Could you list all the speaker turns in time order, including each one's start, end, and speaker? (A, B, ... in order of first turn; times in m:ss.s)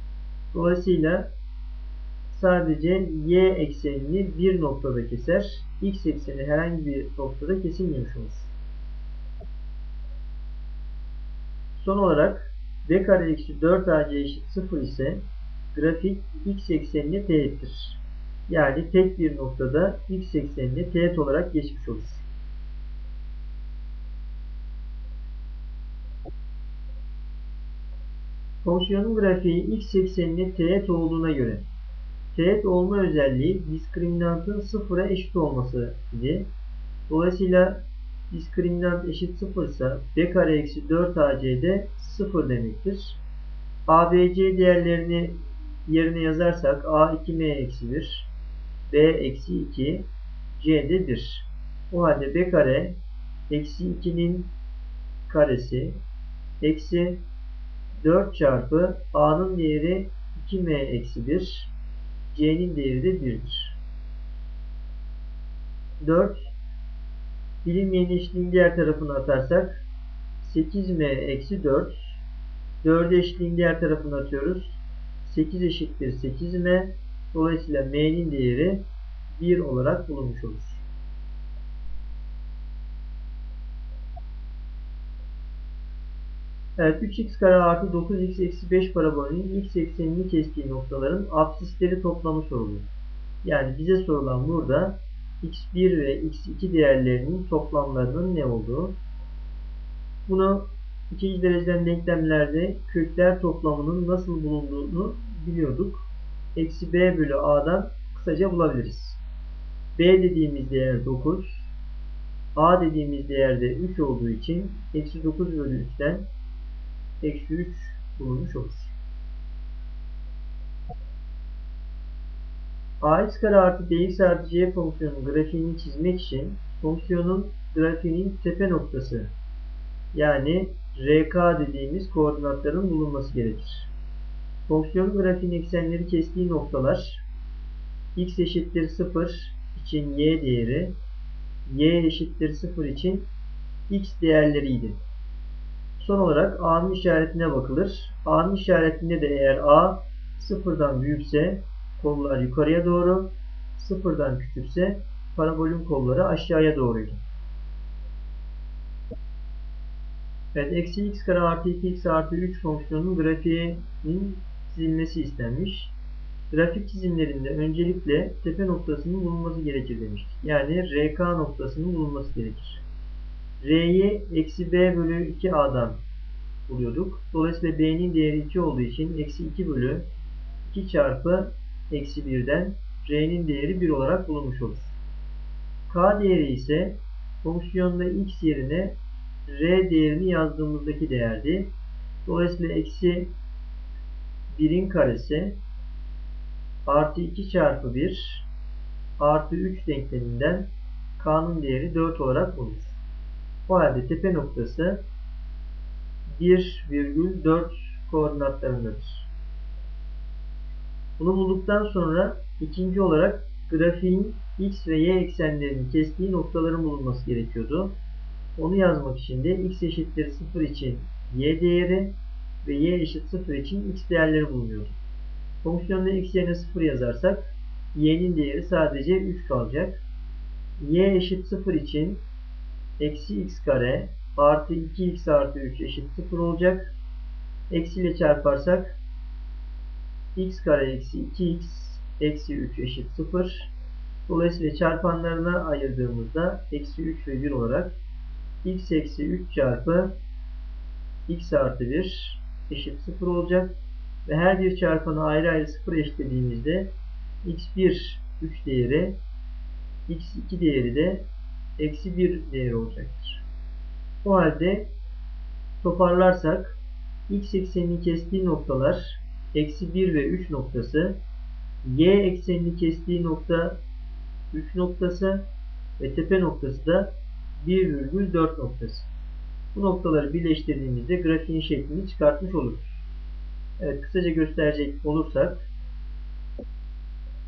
0:00.5-0:01.3 A
0:02.3-0:08.6 A
0:11.8-0:22.3 A
0:28.6-0:31.7 A
0:32.3-0:36.5 A
0:37.1-0:43.2 A
0:43.9-0:48.3 A
0:48.9-0:53.0 A
0:53.5-0:54.5 A
0:55.3-0:56.0 A
0:56.6-0:57.2 A
0:58.0-1:01.7 A
1:02.3-1:03.8 A
1:06.0-1:06.5 A
1:07.6-1:09.9 A
1:10.4-1:12.2 A
1:12.8-1:20.8 A
1:26.8-1:32.9 A
1:33.4-1:39.0 A
1:40.3-1:49.2 A
1:50.0-1:51.7 A
1:52.6-1:56.3 A
1:57.2-1:58.9 A
2:03.0-2:09.3 A
2:10.1-2:13.9 A
2:14.7-2:17.2 A
2:18.2-2:21.0 A
2:21.7-2:23.3 A
2:23.9-2:25.0 A
2:26.0-2:37.2 A
2:40.5-2:46.0 A
2:46.5-2:52.8 A
2:53.6-2:56.0 A
2:56.7-3:00.1 A
3:00.6-3:05.0 A
3:05.9-3:11.7 A
3:12.3-3:13.3 A
3:14.5-3:15.6 A
3:16.9-3:18.5 A
3:19.2-3:23.0 A
3:23.7-3:25.0 A
3:26.3-3:29.3 A
3:31.2-3:38.0 A
3:38.6-3:45.0 A
3:45.6-3:50.0 A
3:50.8-3:52.2 A
3:53.0-3:57.0 A
3:57.7-3:59.0 A
4:00.4-4:03.7 A
4:04.3-4:08.0 A
4:08.6-4:10.2 A
4:11.3-4:16.9 A
4:17.4-4:19.2 A
4:20.1-4:21.3 A
4:21.8-4:23.4 A
4:24.2-4:24.9 A
4:25.8-4:31.2 A
4:31.8-4:33.8 A
4:34.5-4:35.4 A
4:36.0-4:39.1 A
4:39.7-4:43.0 A
4:43.8-4:45.7 A